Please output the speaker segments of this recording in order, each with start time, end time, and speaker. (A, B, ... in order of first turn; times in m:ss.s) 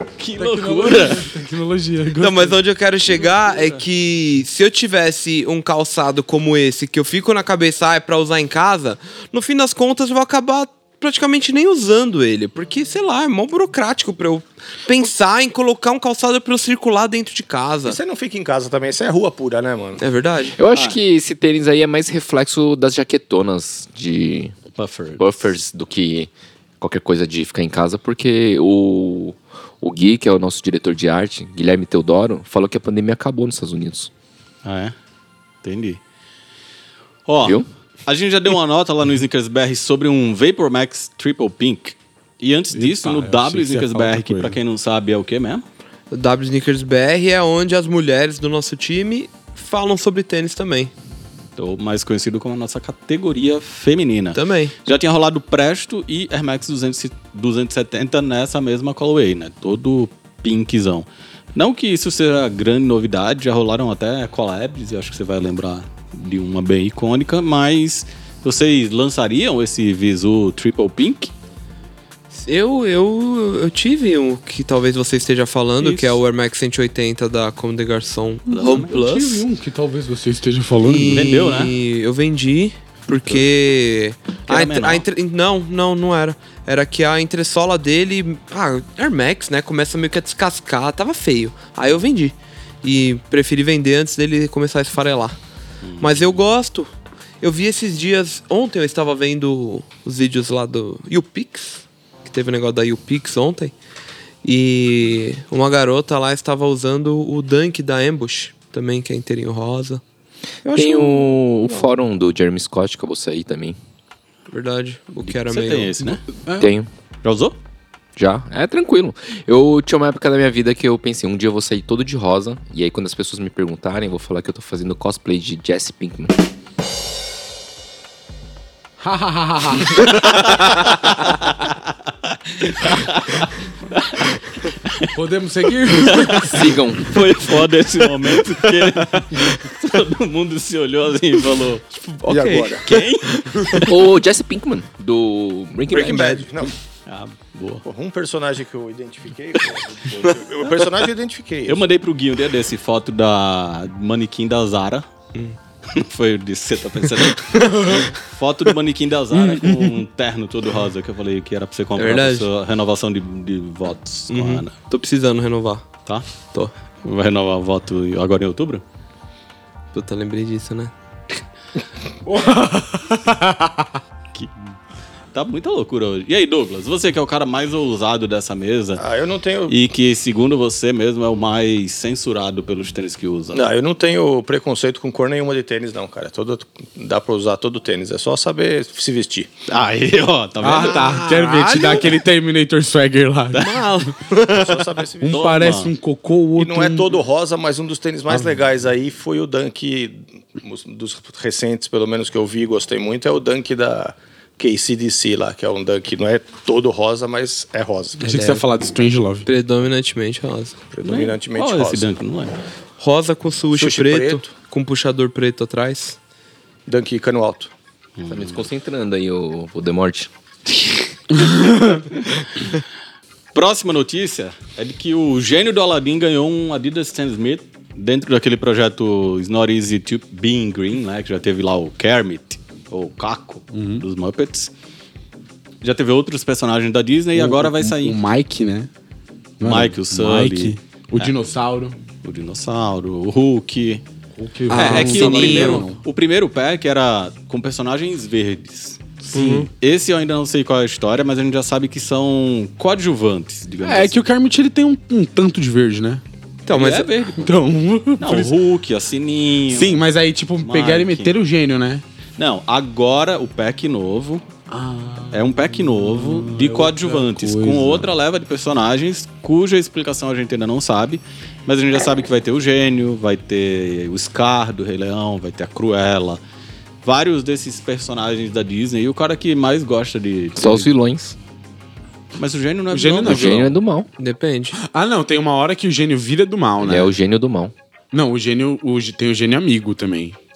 0:00.2-0:01.3 A
0:00.4-0:02.6 B
0:02.2-0:18.0 C
0:03.1-0:03.8 A
0:17.8-0:20.0 D
0:20.0-0:20.6 C
0:20.6-0:24.6 E
0:24.8-0:25.3 A
0:25.2-0:34.1 E
0:34.6-0:34.9 A
0:35.6-0:36.0 A
0:37.2-0:45.6 A
0:42.7-0:44.6 B
0:46.1-0:50.9 C
0:51.6-1:11.3 A
0:54.3-0:54.7 C
1:12.3-1:19.4 C
1:15.8-1:16.2 A
1:18.5-1:21.2 B
1:18.5-1:18.9 A
1:20.8-1:35.4 C
1:21.0-1:21.7 A
1:24.5-1:25.0 A
1:35.8-1:36.3 A
1:36.0-1:43.7 C
1:44.4-1:50.0 C
1:50.6-1:51.9 C
1:50.7-1:53.8 E
1:54.5-1:56.0 C
1:55.3-1:56.2 A
1:56.4-1:56.7 B
1:56.6-1:56.9 E
1:57.2-1:57.6 A
1:58.2-2:06.4 E
2:09.0-2:10.1 B
2:11.1-2:11.7 A
2:12.6-2:14.2 A
2:14.8-2:15.1 A
2:15.1-2:16.7 B
2:16.0-2:16.4 A
2:16.4-2:17.2 E
2:17.0-2:21.8 A
2:18.9-2:19.8 C
2:21.9-2:23.9 C
2:22.3-2:22.8 D
2:22.8-2:23.8 A
2:23.8-2:26.4 E
2:25.9-2:26.7 D
2:26.0-2:26.4 C
2:27.1-2:27.8 A
2:27.8-2:31.8 D
2:31.6-2:35.0 A
2:35.9-2:44.7 A
2:37.3-2:38.1 C
2:39.4-2:39.9 B
2:42.0-2:42.5 C
2:44.3-2:45.9 C
2:47.0-2:48.8 A
2:49.9-2:50.9 C
2:52.2-2:53.9 B
2:55.3-2:59.0 A
2:59.0-2:59.7 D
2:59.7-3:03.6 A
3:03.5-3:09.5 D
3:09.7-3:11.2 A
3:10.6-3:14.1 B
3:10.7-3:12.2 C
3:13.5-3:14.8 C
3:14.4-3:15.7 D
3:15.2-3:17.2 B
3:15.3-3:15.9 A
3:16.6-3:28.2 D
3:28.2-3:28.6 C
3:28.2-3:29.5 B
3:29.4-3:30.8 C
3:30.9-3:32.1 D
3:31.0-3:32.6 A
3:33.0-3:36.2 C
3:33.7-3:34.5 D
3:36.8-3:37.7 D
3:38.2-3:38.6 A
3:38.3-3:40.3 E
3:41.4-3:42.0 B
3:43.5-3:54.7 A
3:53.7-3:54.0 B
3:55.8-3:58.2 A
3:57.3-3:58.9 B
3:59.6-4:02.0 B
3:59.6-4:01.3 A
4:02.2-4:04.0 A
4:04.4-4:06.0 B
4:04.7-4:05.9 C
4:04.7-4:09.2 A
4:09.2-4:09.7 B
4:09.3-4:09.7 C
4:09.7-4:14.1 A
4:13.8-4:16.2 B
4:16.6-4:17.1 C
4:16.7-4:17.5 A
4:17.4-4:18.5 B
4:18.2-4:20.0 A
4:19.7-4:22.0 B
4:20.6-4:21.3 A
4:22.4-4:24.4 A
4:24.7-4:28.1 B
4:25.3-4:36.4 A
4:37.0-4:40.9 A
4:40.6-4:41.4 E
4:42.4-4:43.7 A
4:42.9-4:43.7 B
4:43.2-4:44.1 E
4:44.2-4:44.8 C
4:44.8-4:47.1 B
4:46.8-4:47.7 E
4:48.1-4:50.4 B